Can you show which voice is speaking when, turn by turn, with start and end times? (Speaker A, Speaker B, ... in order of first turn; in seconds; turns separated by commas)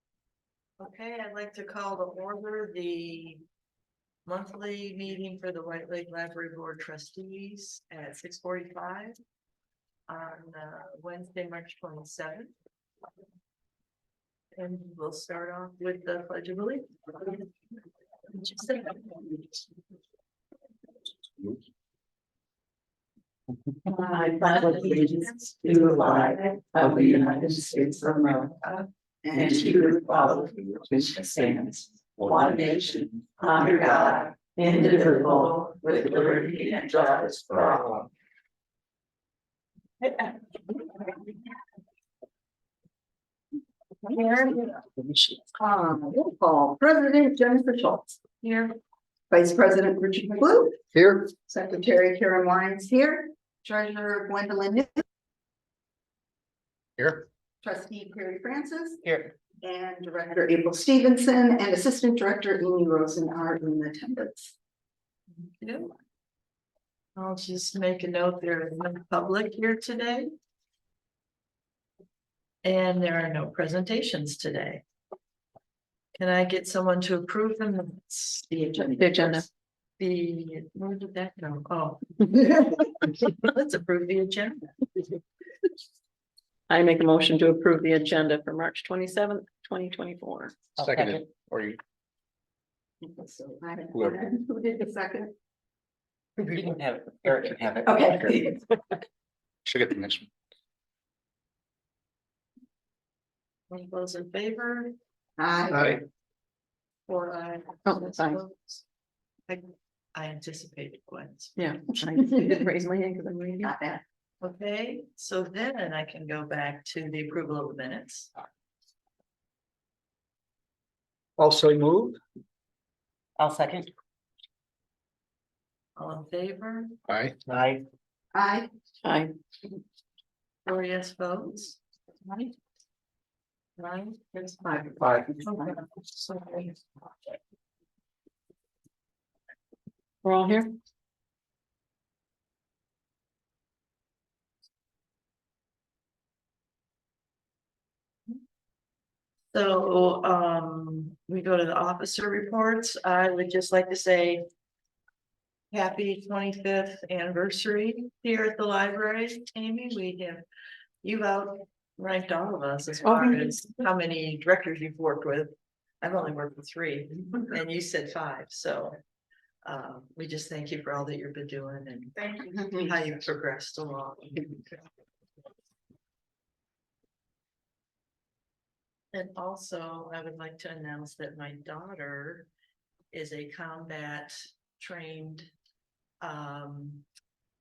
Speaker A: 0.8-3.4, Speaker A: 4.3-9.2, Speaker A: 10.1-12.5, Speaker A: 14.6-17.5, Speaker A: 18.3-19.3, Speaker B: 24.1-27.8, Speaker C: 24.3-25.1, Speaker A: 24.6-26.4, Speaker A: 28.4-28.8, Speaker C: 29.2-30.3, Speaker B: 33.4-36.6, Speaker A: 44.1-44.6, Speaker C: 45.5-48.2, Speaker A: 48.4-48.7, Speaker C: 49.3-55.0, Speaker D: 50.9-51.3, Speaker D: 57.0-57.3, Speaker C: 57.6-59.0, Speaker E: 59.0-59.3, Speaker C: 59.6-64.5, Speaker A: 65.4-66.0, Speaker A: 67.2-70.3, Speaker A: 72.6-74.8, Speaker A: 76.2-79.5, Speaker B: 78.8-79.5, Speaker A: 80.0-84.7, Speaker B: 86.7-90.7, Speaker E: 90.8-91.3, Speaker D: 90.8-91.8, Speaker C: 93.0-95.3, Speaker D: 93.9-94.2, Speaker E: 96.5-98.3, Speaker C: 97.8-98.6, Speaker D: 99.7-100.3, Speaker A: 103.7-105.0, Speaker C: 105.4-106.0, Speaker D: 105.7-106.0, Speaker A: 107.1-108.8, Speaker B: 107.9-108.4, Speaker A: 109.5-111.6, Speaker B: 111.6-113.7, Speaker C: 112.2-112.6, Speaker C: 113.6-114.0, Speaker A: 114.4-118.3, Speaker D: 121.4-122.2, Speaker E: 123.4-123.9, Speaker A: 126.0-126.9, Speaker D: 127.1-127.4, Speaker E: 127.5-127.8, Speaker C: 128.3-128.7, Speaker B: 129.0-129.3, Speaker A: 130.7-131.8, Speaker A: 133.8-136.8, Speaker C: 134.7-135.8, Speaker B: 140.2-140.7, Speaker A: 149.5-154.4, Speaker A: 155.7-160.4, Speaker A: 161.0-165.5, Speaker B: 163.0-163.5, Speaker A: 166.0-169.0, Speaker A: 169.7-174.8, Speaker C: 172.5-172.9, Speaker A: 179.1-182.5, Speaker A: 183.1-185.5, Speaker A: 186.2-187.1